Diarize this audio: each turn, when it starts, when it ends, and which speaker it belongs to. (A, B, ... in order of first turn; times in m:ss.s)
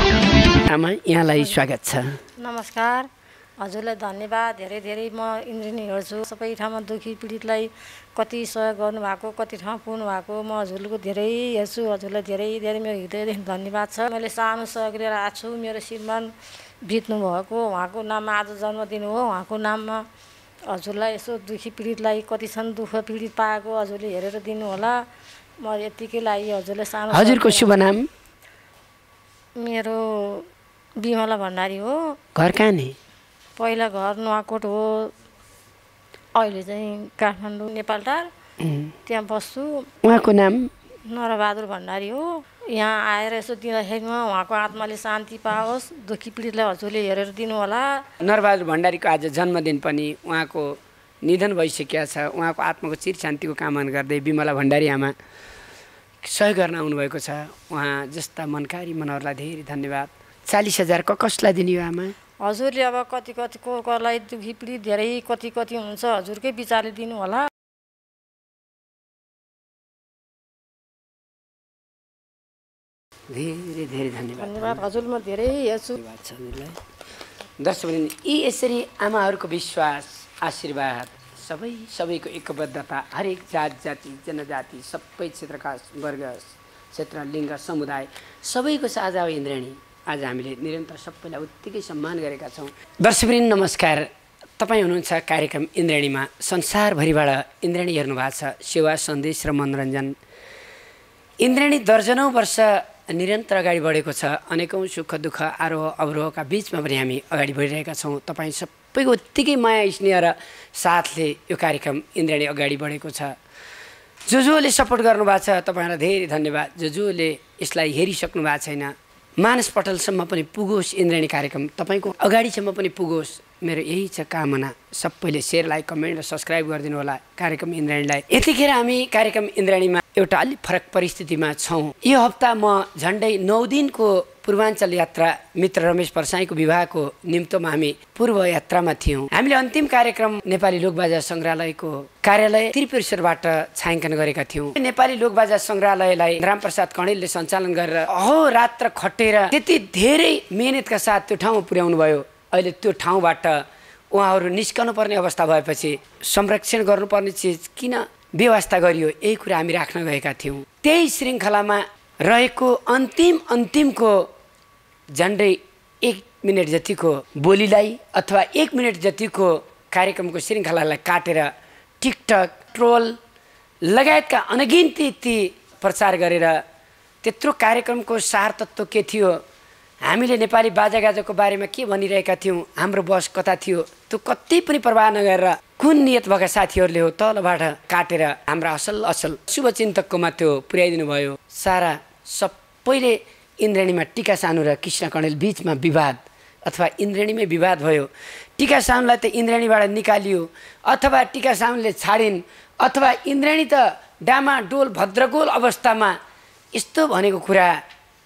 0:00.7-0:02.2 A
0:02.4-0:03.1 B
0:03.6-0:16.3 B
0:16.8-0:20.0 B
0:20.7-0:25.0 B
0:25.6-0:27.8 B
0:27.1-0:28.1 A
0:29.6-0:30.5 B
0:31.0-0:32.2 B
0:32.4-0:33.0 A
0:33.6-0:35.1 B
0:36.4-0:38.3 B
0:38.6-0:38.9 A
0:39.1-0:39.9 B
0:40.0-0:40.7 A
0:41.1-0:48.0 B
0:48.2-0:55.2 A
0:56.2-1:02.2 A
1:02.4-1:07.5 B
1:13.3-1:14.8 A
1:14.4-1:16.0 B
1:16.0-1:16.8 A
1:17.6-1:40.2 A
1:41.4-1:53.4 A
1:54.3-2:44.3 A
2:45.2-2:53.2 A
2:53.8-2:56.6 A
2:57.2-2:59.4 A
3:00.0-3:26.2 A
3:26.7-3:27.8 A